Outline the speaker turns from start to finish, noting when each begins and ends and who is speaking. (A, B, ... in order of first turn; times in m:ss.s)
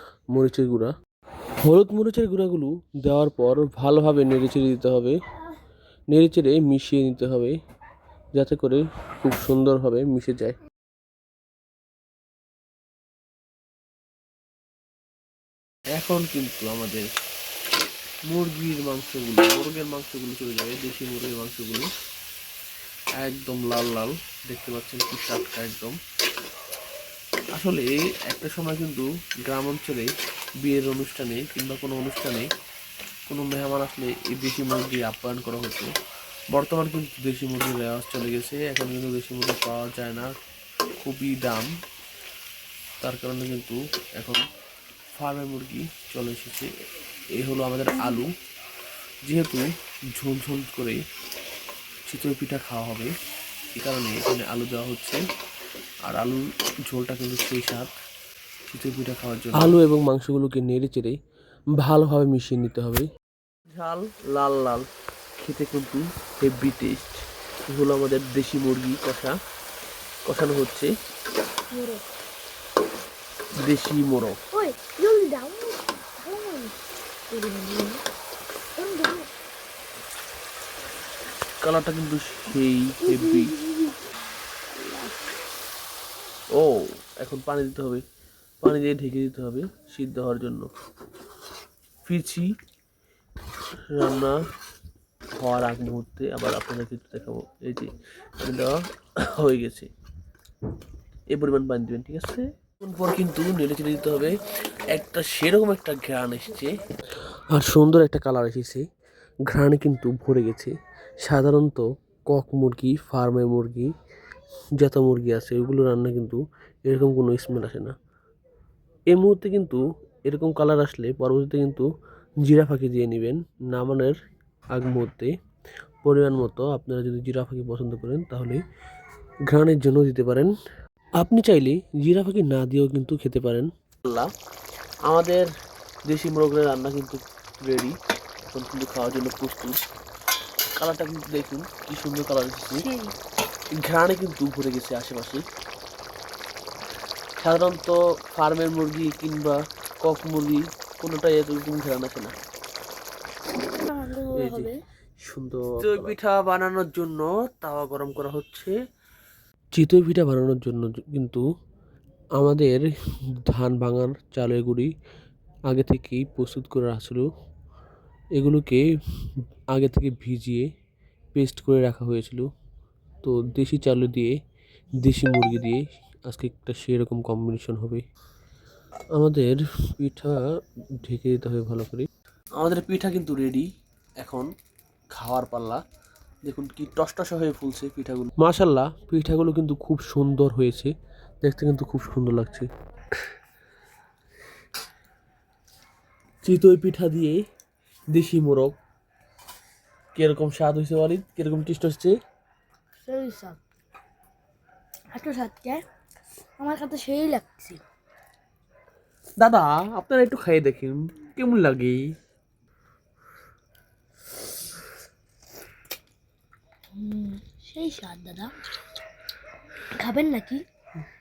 0:00.3-0:00.9 A
0:01.6-0:05.2 A
0:06.1-0:07.5 A
0:08.3-0:10.6 A
0:15.9-0:17.1 A
0:18.3-0:21.9 A
0:23.2-0:25.9 A
0:27.6-0:30.1 A
0:30.6-0:32.5 A
0:33.3-0:35.9 A
0:36.5-0:40.3 A
0:41.0-0:41.7 A
0:43.0-0:44.4 A
0:45.1-0:46.7 A
0:47.4-0:48.3 A
0:49.2-0:49.6 A
0:50.1-0:51.0 A
0:52.1-0:53.1 A
0:53.8-0:55.2 A
0:56.0-0:57.9 A
0:58.7-1:01.2 A
1:01.8-1:03.1 A
1:03.7-1:04.8 A
1:05.4-1:09.3 A
1:10.2-1:10.9 A
1:11.7-1:12.0 B
1:13.6-1:14.4 A
1:14.5-1:16.7 B
1:17.3-1:18.0 B
1:18.8-1:19.3 B
1:21.6-1:23.5 A
1:23.0-1:23.9 B
1:24.8-1:25.1 B
1:26.5-1:28.0 A
1:28.6-1:30.7 A
1:32.0-1:32.5 A
1:33.9-1:34.4 A
1:35.4-1:39.9 A
1:41.3-1:44.3 A
1:44.8-1:46.7 A
1:47.5-1:48.8 A
1:49.5-1:50.7 A
1:51.2-1:53.9 A
1:54.8-1:57.9 A
1:59.1-2:01.9 A
2:02.4-2:04.1 A
2:04.7-2:05.3 A
2:06.0-2:08.6 A
2:09.4-2:10.5 A
2:11.2-2:14.3 A
2:15.1-2:15.5 A
2:16.1-2:17.9 A
2:18.5-2:19.8 A
2:20.8-2:22.9 A
2:22.8-2:23.1 B
2:23.8-2:25.4 A
2:27.4-2:32.3 A
2:33.9-2:34.8 B
2:34.3-2:34.7 A
2:35.2-2:38.7 A
2:39.8-2:41.4 A
2:42.4-2:42.8 A
2:43.5-2:44.9 A
2:45.7-2:47.2 A
2:48.4-2:48.8 A
2:49.7-2:50.7 A
2:51.3-2:52.5 A
2:53.2-2:54.3 A
2:55.0-2:58.0 A
2:59.1-3:00.4 A
3:01.0-3:03.7 A
3:04.2-3:04.5 A
3:05.1-3:05.8 A
3:06.4-3:12.7 A
3:16.4-3:17.4 A
3:18.1-3:18.7 A
3:20.1-3:22.2 A
3:23.0-3:23.6 B
3:25.1-3:25.8 B
3:26.6-3:27.8 B
3:29.4-3:32.1 A
3:37.0-3:38.5 B
3:40.0-3:40.6 B